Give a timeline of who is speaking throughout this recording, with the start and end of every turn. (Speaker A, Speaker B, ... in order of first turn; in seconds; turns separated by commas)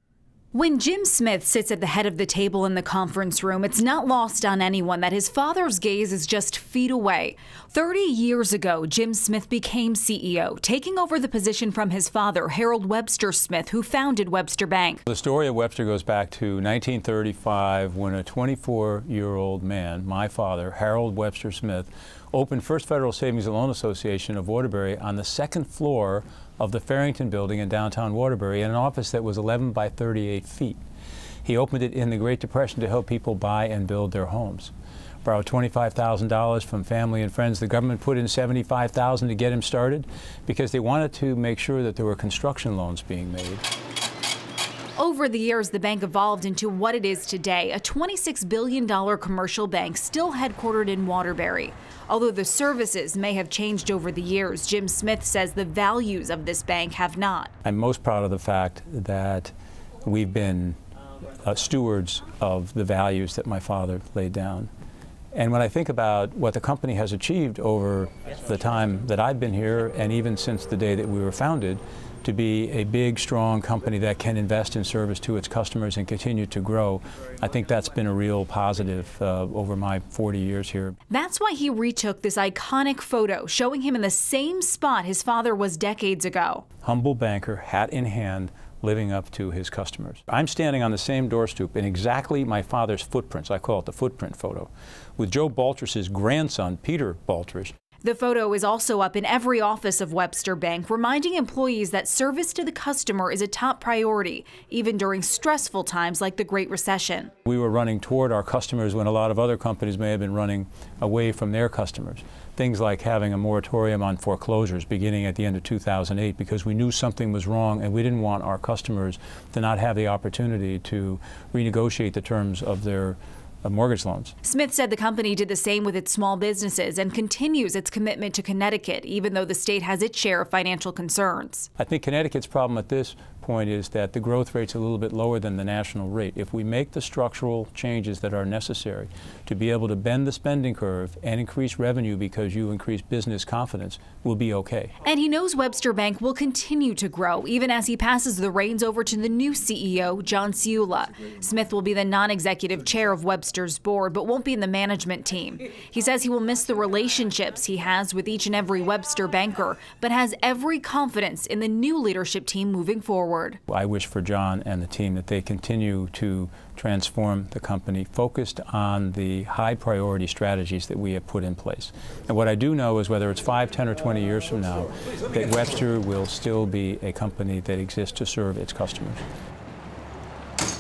Speaker A: 0.5-15.0, Speaker B: 15.1-30.8, Speaker B: 31.4-34.7, Speaker B: 35.2-43.6, Speaker A: 45.0-57.5, Speaker B: 57.6-59.5, Speaker B: 60.0-60.8, Speaker B: 61.4-64.7, Speaker B: 65.3-81.0, Speaker A: 81.1-86.6, Speaker B: 86.8-97.7, Speaker A: 98.0-107.3, Speaker B: 107.4-124.3, Speaker A: 124.4-131.7, Speaker B: 131.8-144.9, Speaker A: 145.0-163.6, Speaker B: 163.7-179.2